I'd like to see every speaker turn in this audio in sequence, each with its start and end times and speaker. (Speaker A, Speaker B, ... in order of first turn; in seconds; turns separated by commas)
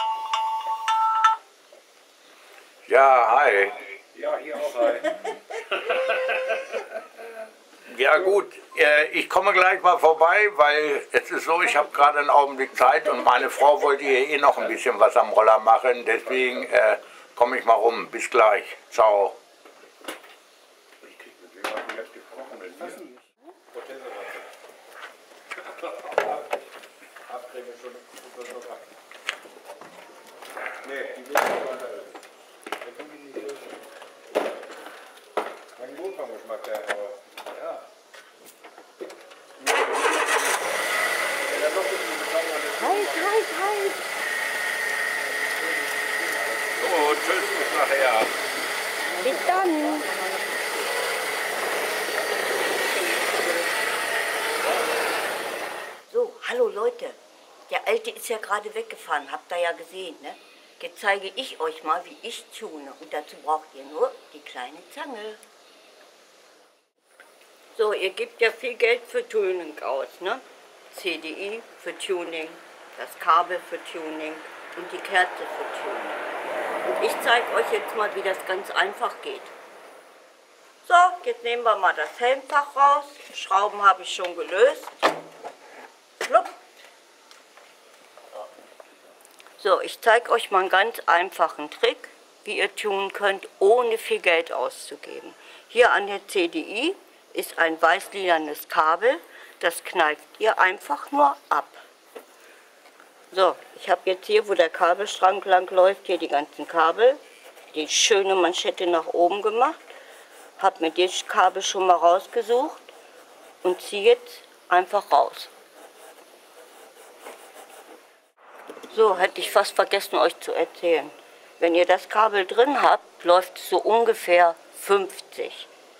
Speaker A: 2.9-3.8, Speaker B: 4.4-5.1, Speaker A: 7.9-19.4, Speaker A: 21.2-22.9, Speaker B: 23.8-24.4, Speaker B: 27.3-28.7, Speaker B: 30.8-31.9, Speaker B: 35.8-37.1, Speaker B: 41.6-42.6, Speaker C: 42.6-44.0, Speaker A: 46.8-48.3, Speaker C: 49.2-50.4, Speaker C: 56.1-57.1, Speaker C: 57.7-65.4, Speaker C: 67.7-76.2, Speaker C: 76.9-79.5, Speaker C: 80.8-84.9, Speaker C: 86.2-86.5, Speaker C: 89.6-101.8, Speaker C: 103.3-107.2, Speaker C: 107.7-109.8, Speaker C: 110.6-112.9, Speaker C: 113.6-115.5, Speaker C: 118.9-125.7